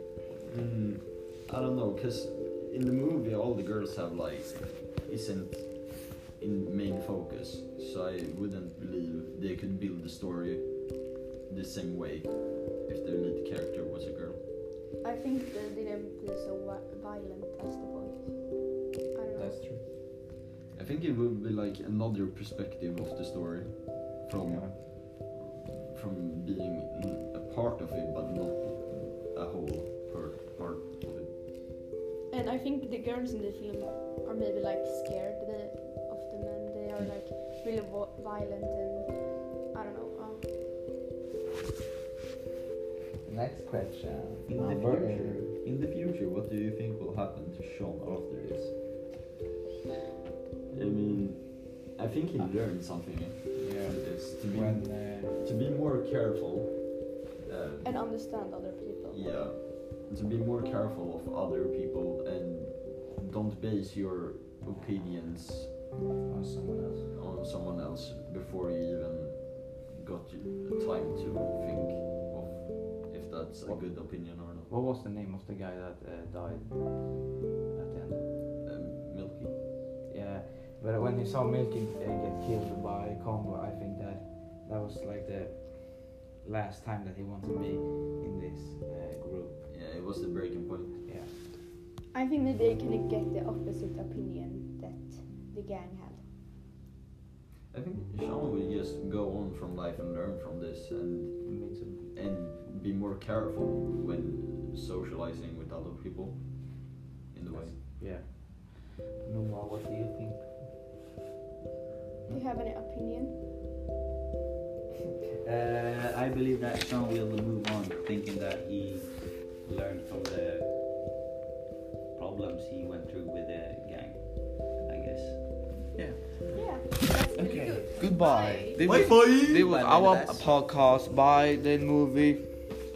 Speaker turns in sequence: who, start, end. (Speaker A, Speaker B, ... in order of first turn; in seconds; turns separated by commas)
Speaker A: 0.4-14.4, Speaker B: 15.0-18.5, Speaker B: 19.1-19.7, Speaker C: 19.4-19.8, Speaker A: 20.7-31.3, Speaker C: 24.4-24.8, Speaker B: 32.3-40.5, Speaker C: 43.2-45.5, Speaker A: 44.5-48.7, Speaker A: 50.7-58.0, Speaker C: 53.5-55.4, Speaker B: 57.8-59.5, Speaker A: 59.1-65.7, Speaker C: 66.3-67.1, Speaker A: 67.1-74.7, Speaker C: 73.7-78.3, Speaker A: 78.6-79.5, Speaker C: 80.1-89.7, Speaker A: 89.7-91.0, Speaker C: 91.0-91.3, Speaker B: 92.1-96.2, Speaker A: 97.7-101.5, Speaker D: 101.5-102.1, Speaker A: 102.1-107.8, Speaker C: 107.5-108.5, Speaker D: 109.2-110.5, Speaker B: 112.3-113.4, Speaker D: 115.4-120.7, Speaker D: 122.1-125.4, Speaker C: 125.9-126.7, Speaker B: 126.5-128.8, Speaker C: 127.3-132.5, Speaker A: 128.8-129.8, Speaker D: 129.0-130.5